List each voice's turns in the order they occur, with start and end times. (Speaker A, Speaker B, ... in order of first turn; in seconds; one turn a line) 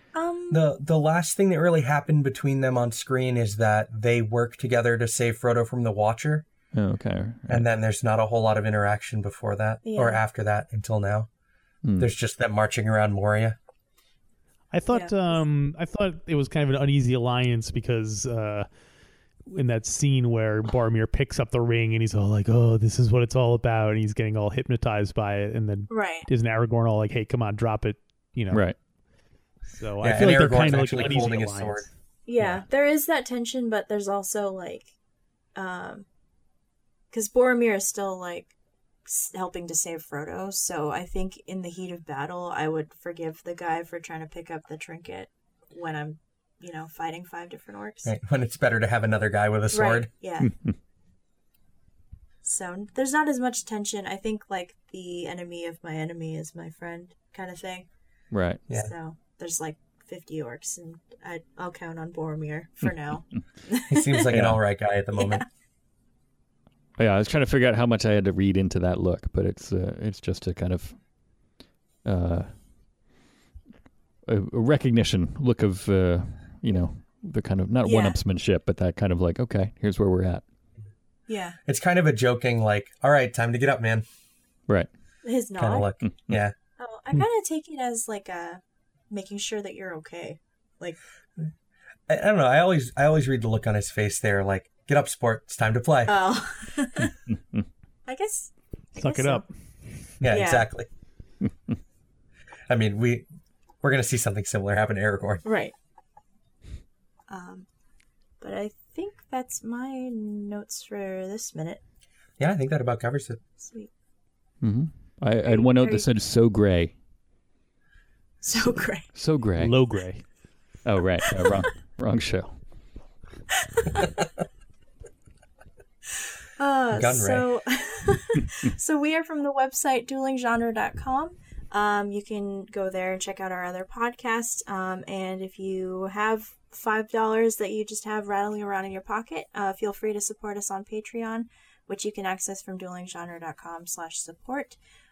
Speaker A: 0.1-0.7
Speaker B: 0.5-6.5
Speaker C: 6.7-7.6
Speaker B: 7.5-11.3
Speaker A: 9.8-10.2
Speaker C: 11.8-12.1
Speaker B: 12.0-13.6
Speaker D: 14.7-18.7
Speaker A: 14.9-15.4
Speaker D: 19.4-28.6
Speaker A: 25.9-26.3
Speaker C: 28.5-28.8
Speaker D: 29.7-31.9
Speaker B: 30.0-31.9
Speaker A: 32.3-34.9
Speaker A: 35.5-36.1
Speaker A: 37.1-38.5
Speaker A: 39.0-48.1
Speaker B: 48.0-50.1
Speaker A: 49.7-50.5
Speaker C: 50.4-50.7
Speaker A: 52.4-57.9
Speaker C: 58.3-58.6
Speaker A: 58.7-64.3
Speaker B: 63.9-65.4
Speaker C: 64.3-64.6
Speaker A: 65.2-65.4
Speaker C: 67.0-71.0
Speaker C: 72.0-72.5
Speaker C: 74.2-80.4
Speaker A: 77.8-78.2
Speaker A: 81.3-81.6
Speaker B: 81.6-84.0
Speaker A: 85.2-85.9
Speaker B: 85.6-86.5
Speaker C: 86.0-86.4
Speaker A: 86.8-91.0
Speaker B: 92.1-96.1
Speaker A: 96.1-97.2
Speaker A: 98.1-99.4
Speaker D: 99.0-99.5
Speaker B: 100.2-100.9
Speaker A: 100.3-100.7
Speaker B: 102.7-103.3
Speaker B: 103.8-105.4
Speaker A: 105.4-105.7
Speaker A: 107.3-107.7
Speaker A: 108.4-111.8
Speaker B: 112.4-113.4
Speaker A: 113.6-113.9
Speaker C: 114.6-116.9
Speaker A: 115.4-116.1
Speaker A: 118.4-119.1
Speaker C: 119.1-119.8
Speaker D: 119.6-120.2
Speaker C: 120.8-122.5
Speaker A: 123.5-124.1
Speaker A: 126.6-144.8
Speaker B: 126.9-127.5